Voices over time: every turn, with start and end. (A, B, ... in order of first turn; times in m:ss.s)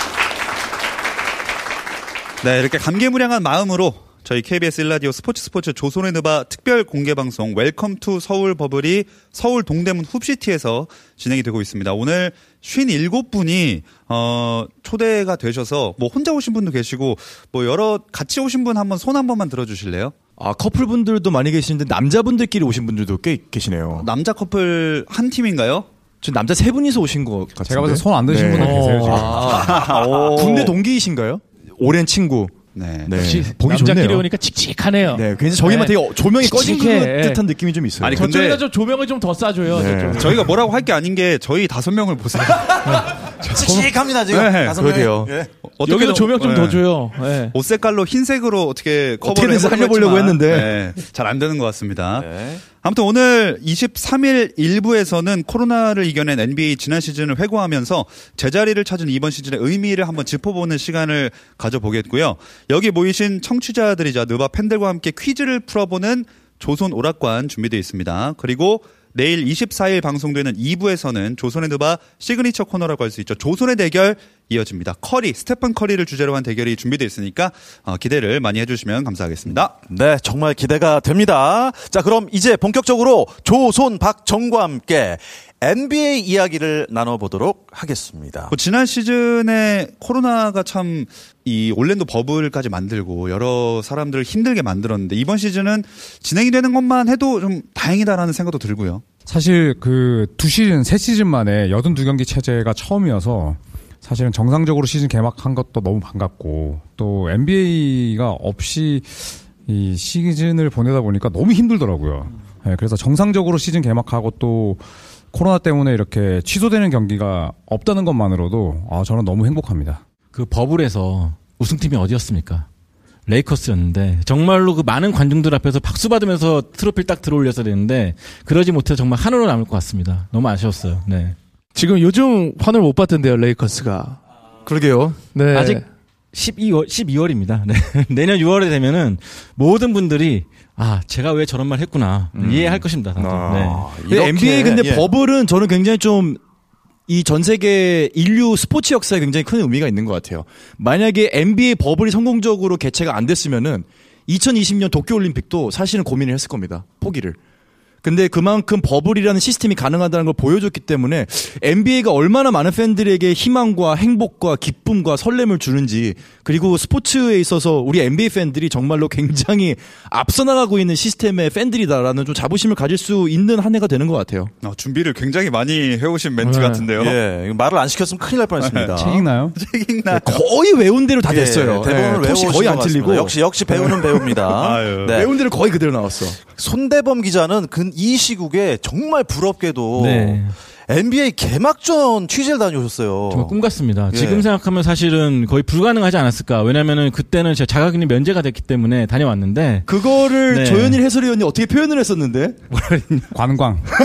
0:02.4-0:20.1 A
0:20.4-0:24.1 B
0:24.0-0:25.9 A
0:26.2-0:34.3 B
0:27.6-0:29.5 C
0:28.6-0:29.2 D
0:29.4-0:30.7 A
0:32.7-0:33.2 A
0:33.2-0:37.4 D
0:35.1-0:38.3 B
0:38.0-0:38.7 A
0:38.1-0:40.4 D
0:39.7-0:40.5 B
0:40.2-0:44.8 A
0:43.4-0:45.5 E
0:44.3-0:45.4 B
0:45.6-0:46.9 A
0:45.8-0:47.6 D
0:47.5-1:19.8 A
0:49.2-0:50.8 B
0:52.2-0:52.6 E
1:19.9-1:28.5 E
1:28.5-1:39.0 A
1:39.2-2:00.0 C
2:00.3-2:02.7 F
2:03.3-2:11.4 F
2:11.7-2:14.2 D
2:14.6-2:15.8 B
2:15.3-2:15.8 D
2:16.3-2:23.9 F
2:22.3-2:26.4 B
2:23.7-2:25.1 E
2:27.1-2:37.4 B
2:38.0-2:54.5 B
2:54.6-2:57.2 A
2:56.4-2:56.9 D
2:57.0-2:59.2 E
2:58.6-3:00.4 A
2:59.0-2:59.6 C
3:00.1-3:04.0 B
3:01.2-3:05.3 E
3:04.5-3:05.2 A
3:05.1-3:06.4 B
3:06.5-3:13.6 E
3:10.0-3:10.5 F
3:13.3-3:21.0 F
3:14.1-3:14.4 E
3:19.9-3:22.6 B
3:22.7-3:23.3 F
3:23.3-3:23.9 C